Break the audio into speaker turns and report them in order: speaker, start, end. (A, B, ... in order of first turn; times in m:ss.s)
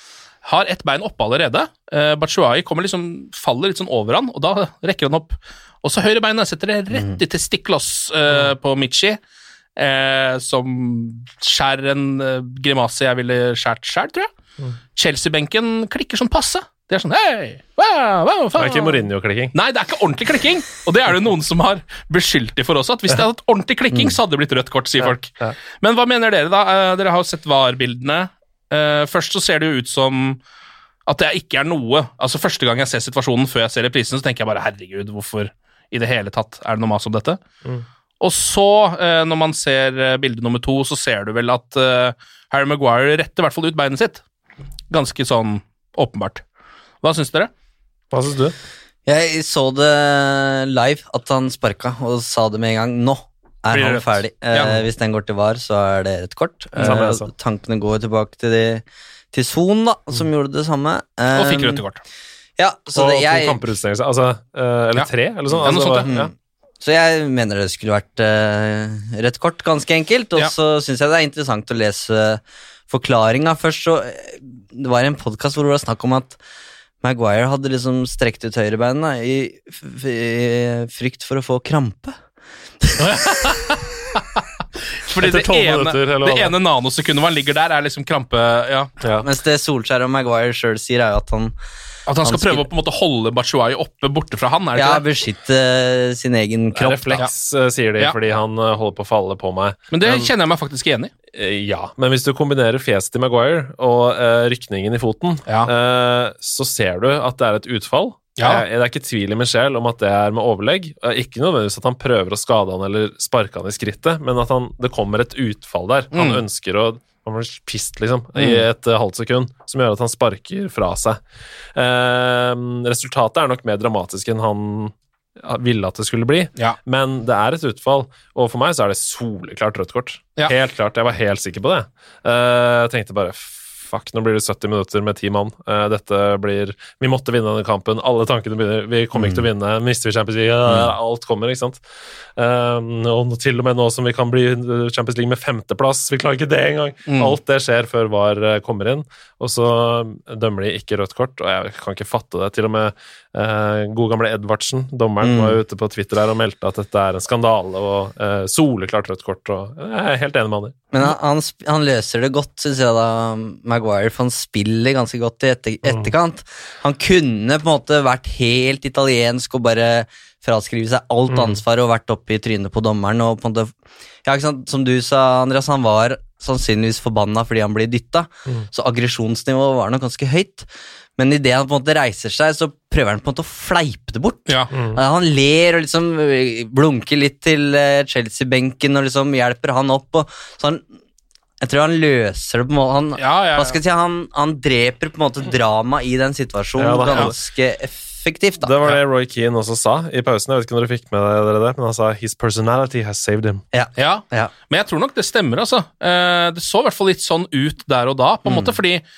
0:00.4-0:09.2 A
0:09.8-0:14.3 A
0:15.0-0:19.0 A
0:18.6-0:19.5 B
0:19.5-0:30.4 A
0:25.0-0:25.6 B
0:31.1-0:37.4 A
0:38.2-0:44.2 A
0:44.9-0:46.4 A
0:47.0-0:47.5 A
0:48.1-0:48.6 B
0:49.1-1:01.8 C
0:53.7-0:54.8 A
0:56.8-0:57.3 B
1:01.3-1:02.0 A
1:02.6-1:03.6 C
1:03.0-1:06.3 B
1:05.6-1:06.1 A
1:06.0-1:16.4 C
1:17.0-1:22.2 C
1:23.0-1:24.4 A
1:25.0-1:28.9 A
1:25.2-1:26.5 B
1:29.0-1:29.2 B
1:29.2-1:31.5 C
1:32.1-1:35.0 A
1:32.2-1:32.7 C
1:34.8-1:37.2 C
1:36.8-1:40.3 B
1:39.9-1:41.1 A
1:41.3-2:01.2 B
1:48.4-1:48.6 A
1:56.1-1:56.4 A
2:01.8-2:21.8 B
2:22.4-2:41.1 B
2:27.1-2:27.4 A
2:35.2-2:35.6 C
2:40.9-2:53.7 C
2:51.3-2:51.6 B
2:54.2-3:10.8 C
3:04.7-3:05.0 B
3:11.6-3:18.8 C
3:13.2-3:13.8 A
3:16.8-3:17.4 B
3:18.6-3:23.6 B
3:23.7-3:24.5 C
3:24.0-3:29.0 A
3:28.5-3:28.7 C